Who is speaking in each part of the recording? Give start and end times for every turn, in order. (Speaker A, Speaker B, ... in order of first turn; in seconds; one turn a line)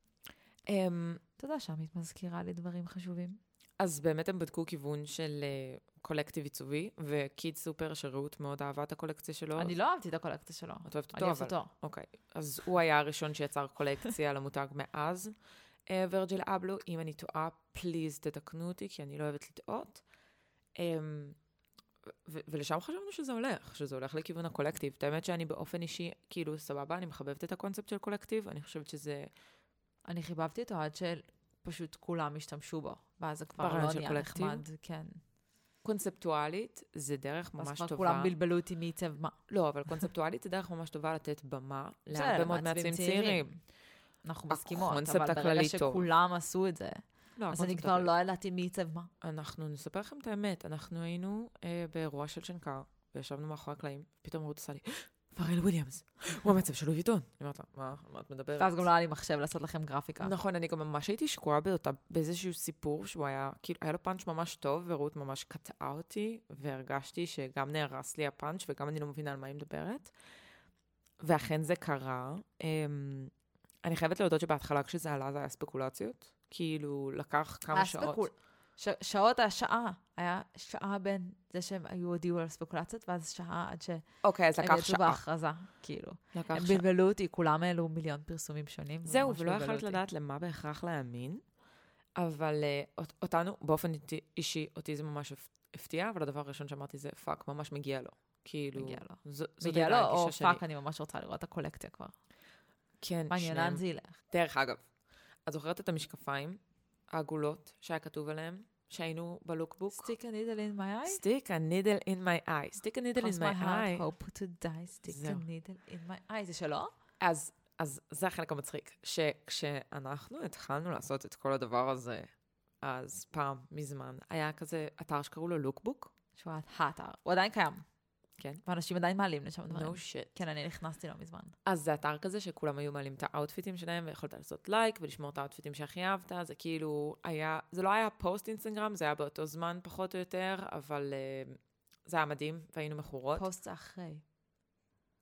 Speaker A: 0.7-1.2
Speaker B: 1.4-3.4
Speaker A: 3.8-9.7
Speaker B: 9.6-11.7
Speaker A: 10.8-15.3
Speaker A: 15.9-20.0
Speaker A: 20.8-21.4
Speaker A: 22.2-29.3
Speaker B: 30.1-35.2
Speaker A: 33.6-34.6
Speaker A: 35.8-38.3
Speaker B: 37.6-39.4
Speaker A: 39.5-43.5
Speaker B: 42.1-43.6
Speaker B: 44.2-49.1
Speaker A: 44.5-46.1
Speaker A: 47.4-48.1
Speaker A: 49.2-58.9
Speaker B: 58.5-60.3
Speaker A: 60.2-70.1
Speaker A: 71.2-73.3
Speaker A: 73.8-78.2
Speaker B: 77.7-84.0
Speaker A: 84.2-85.2
Speaker B: 84.6-90.0
Speaker A: 86.3-86.8
Speaker A: 89.0-91.4
Speaker A: 92.2-100.6
Speaker B: 98.8-102.1
Speaker A: 103.0-104.8
Speaker B: 103.3-104.2
Speaker A: 105.5-106.6
Speaker A: 107.1-110.1
Speaker B: 109.9-111.2
Speaker A: 111.0-114.0
Speaker B: 113.2-116.9
Speaker A: 115.1-115.4
Speaker A: 117.2-122.3
Speaker A: 122.8-126.1
Speaker B: 126.3-127.8
Speaker A: 128.4-128.6
Speaker B: 128.6-131.5
Speaker A: 129.7-130.3
Speaker A: 131.6-143.4
Speaker B: 143.3-144.2